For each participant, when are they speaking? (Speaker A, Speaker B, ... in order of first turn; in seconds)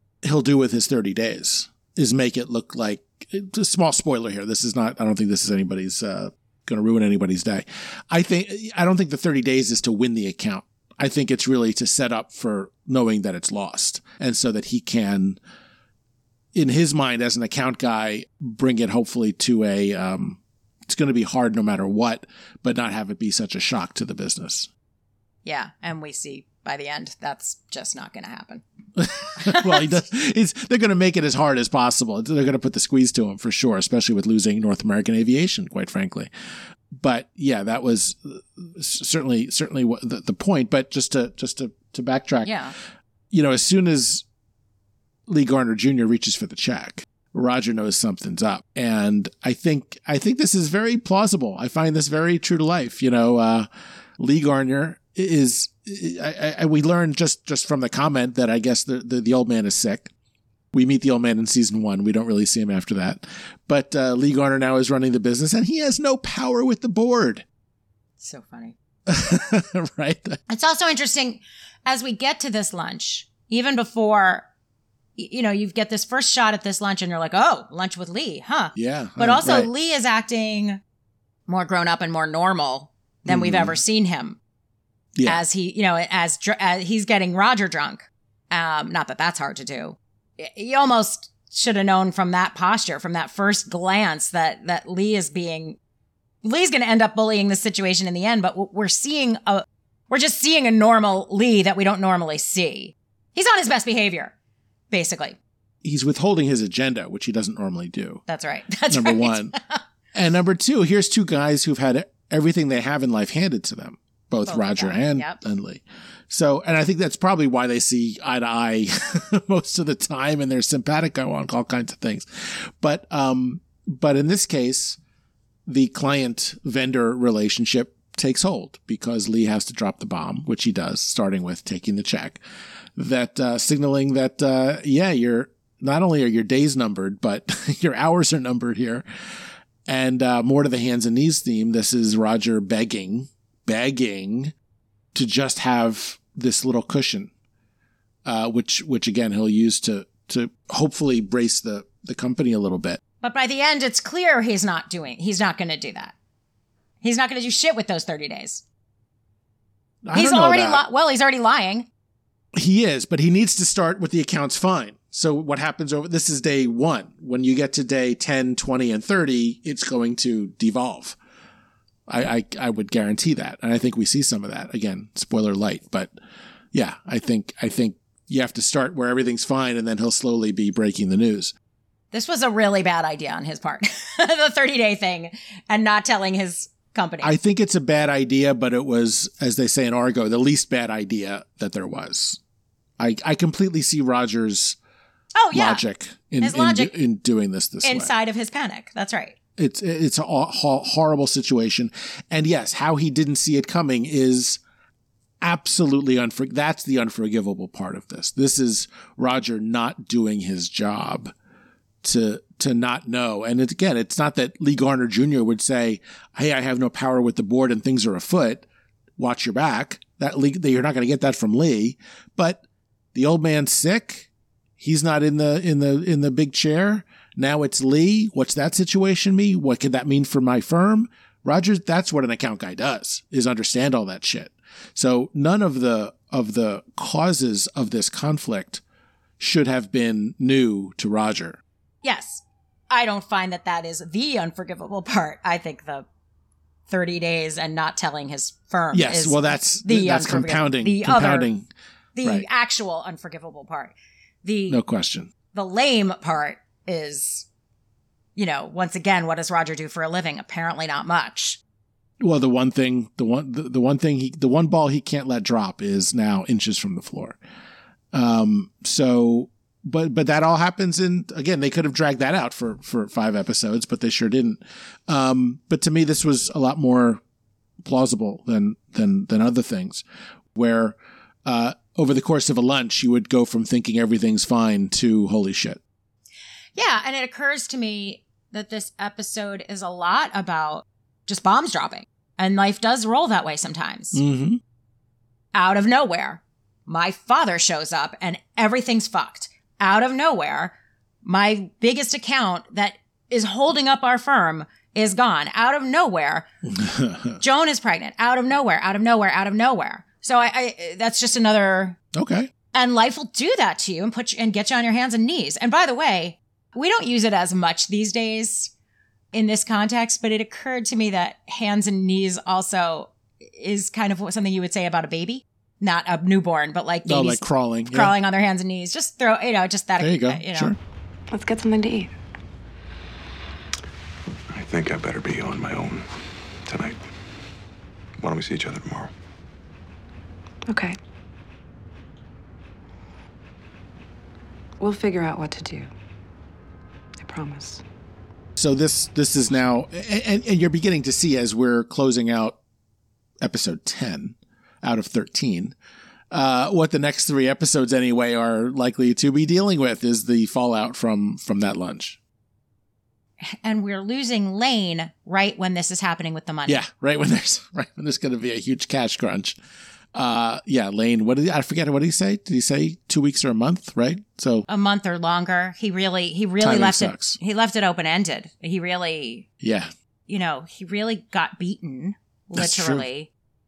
Speaker A: 0.2-15.4, 16.5-24.7, 29.0-36.3, 36.9-42.6, 43.3-44.2, 45.3-53.7, 54.2-60.1, 60.7-67.4, 69.1-70.4, 78.7-79.7, 83.3-83.8, 85.2-85.4, 105.8-108.2, 108.9-109.6, 110.1-125.0, 125.7-132.4, 132.9-139.0, 139.8-144.5, 145.1-147.3, 148.2-153.0, 160.0-160.8, 162.6-171.2, 172.1-176.1, 176.7-181.5, 187.2-192.4, 193.0-194.8, 195.5-198.1, 199.6-204.6, 205.4-211.3, 212.0-218.6, 219.2-222.6, 223.1-224.3, 224.8-238.8, 239.4-241.6, 248.9-251.7, 254.7-255.3, 262.2-267.4, 268.1-277.2, 277.8-280.0, 280.5-285.8, 294.1-294.6, 306.7-307.4, 312.1-312.5, 327.1-328.1, 330.0-330.8, 348.6-352.6, 353.4-355.7, 356.3-362.2, 366.7-369.6, 370.1-374.7, 376.6-377.4, 379.6-379.9, 382.6-383.1
Speaker B: 25.4-28.6, 29.4-30.0, 42.4-42.7, 68.2-68.8, 70.5-74.5, 75.2-80.8, 81.5-84.4, 85.2-95.8, 96.4-104.3, 104.9-105.4, 108.3-109.8, 114.5-115.4, 153.2-156.1, 157.0-158.6, 160.1-161.9, 182.1-187.3, 195.3-195.8, 196.4-196.9, 197.8-199.3, 242.0-246.1, 246.9-251.5, 252.2-253.9, 254.4-254.8, 255.5-257.4, 258.4-261.6, 286.8-294.2, 295.5-306.5, 307.4-312.0, 312.7-318.7, 319.3-330.7, 363.4-366.8, 374.7-379.4, 380.3-383.3
Speaker C: 331.3-332.1, 340.7-341.0, 344.8-345.9, 347.2-347.8
Speaker D: 334.5-336.1, 336.6-337.0, 338.2-339.1